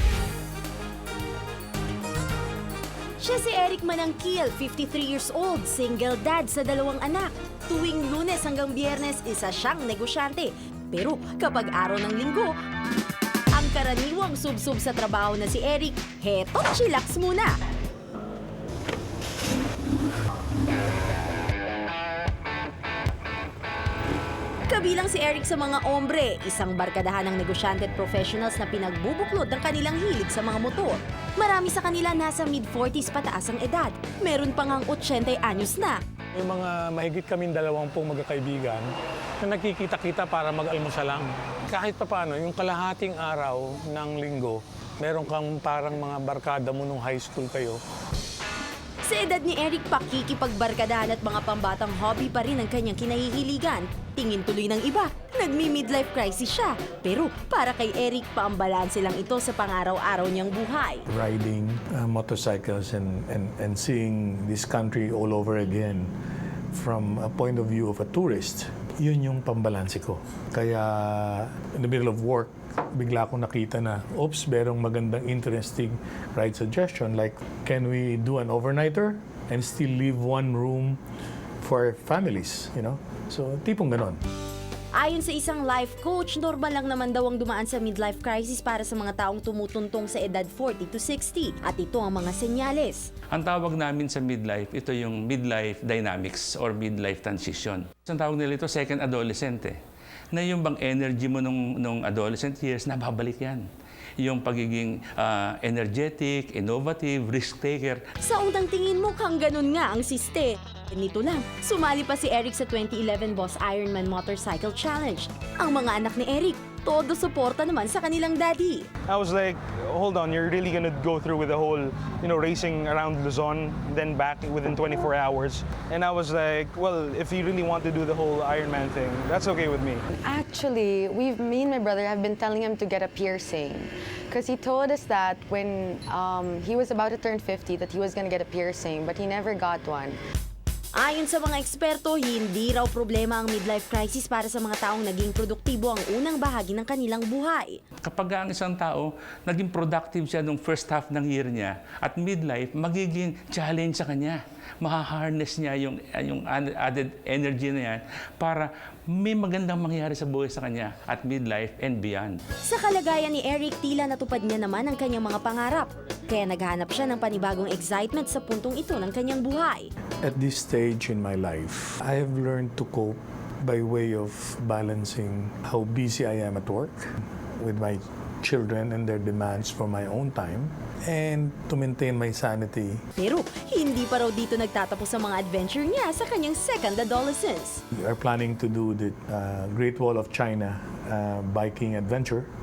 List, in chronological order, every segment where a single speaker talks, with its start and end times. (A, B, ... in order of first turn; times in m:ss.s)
0:03.2-0:12.5 A
0:13.5-0:17.5 A
0:24.7-0:36.0 A
0:36.3-0:38.9 B
0:39.4-0:47.8 B
0:49.0-1:01.0 A
1:01.1-1:06.1 C
1:06.7-1:21.0 C
1:21.6-1:24.2 C
1:24.9-1:33.1 A
1:33.3-1:39.7 D
1:40.3-1:43.6 D
1:44.2-1:48.0 D
1:48.2-1:58.9 A
1:59.1-2:10.0 E
2:10.1-2:20.2 F
2:21.0-2:27.8 A
2:28.0-2:42.4 D
2:42.6-2:49.9 A
2:50.2-3:03.0 C
3:03.2-3:07.8 A
3:07.9-3:12.5 C